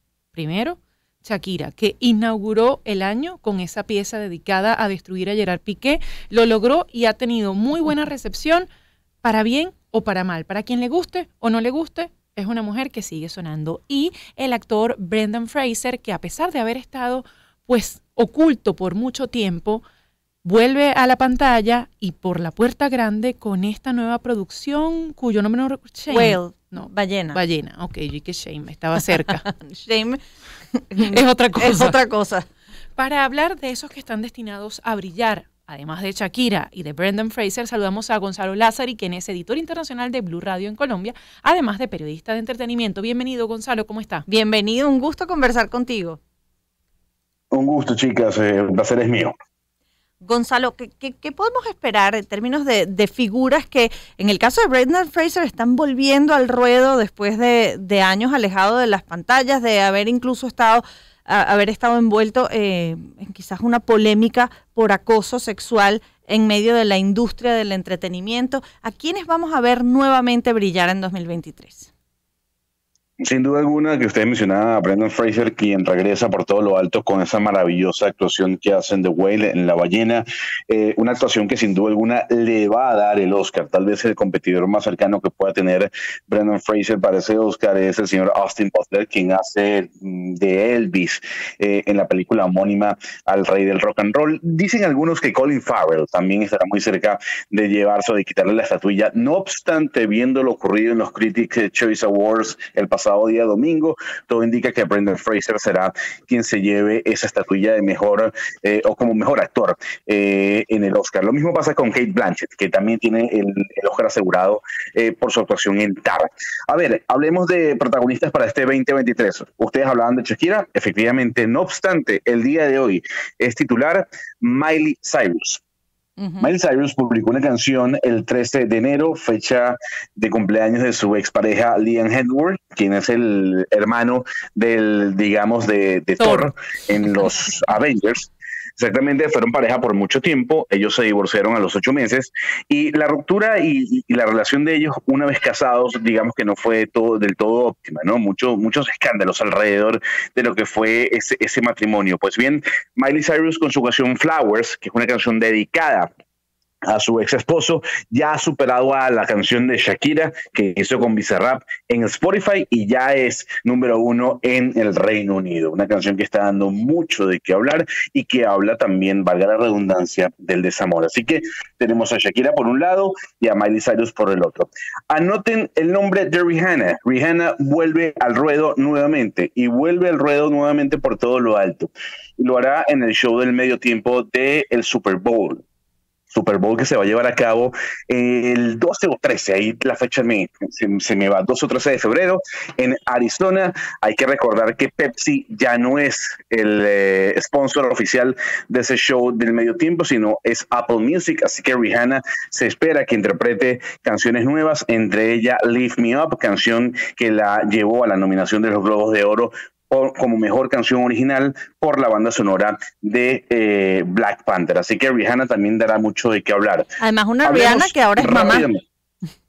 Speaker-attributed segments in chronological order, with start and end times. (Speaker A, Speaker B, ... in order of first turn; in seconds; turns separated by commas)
Speaker A: 0.3-8.7, Speaker A: 9.2-19.8, Speaker A: 20.4-29.4, Speaker B: 26.1-27.4, Speaker B: 29.4-30.2, Speaker B: 30.7-32.5, Speaker A: 31.0-31.9, Speaker A: 33.0-44.2, Speaker B: 44.3-46.2, Speaker C: 47.5-49.3, Speaker B: 50.2-71.9, Speaker C: 73.2-125.6, Speaker B: 126.2-126.5, Speaker C: 126.4-156.1, Speaker A: 136.2-136.5, Speaker C: 156.9-185.6, Speaker C: 186.3-216.9, Speaker B: 217.0-218.7, Speaker C: 217.4-218.8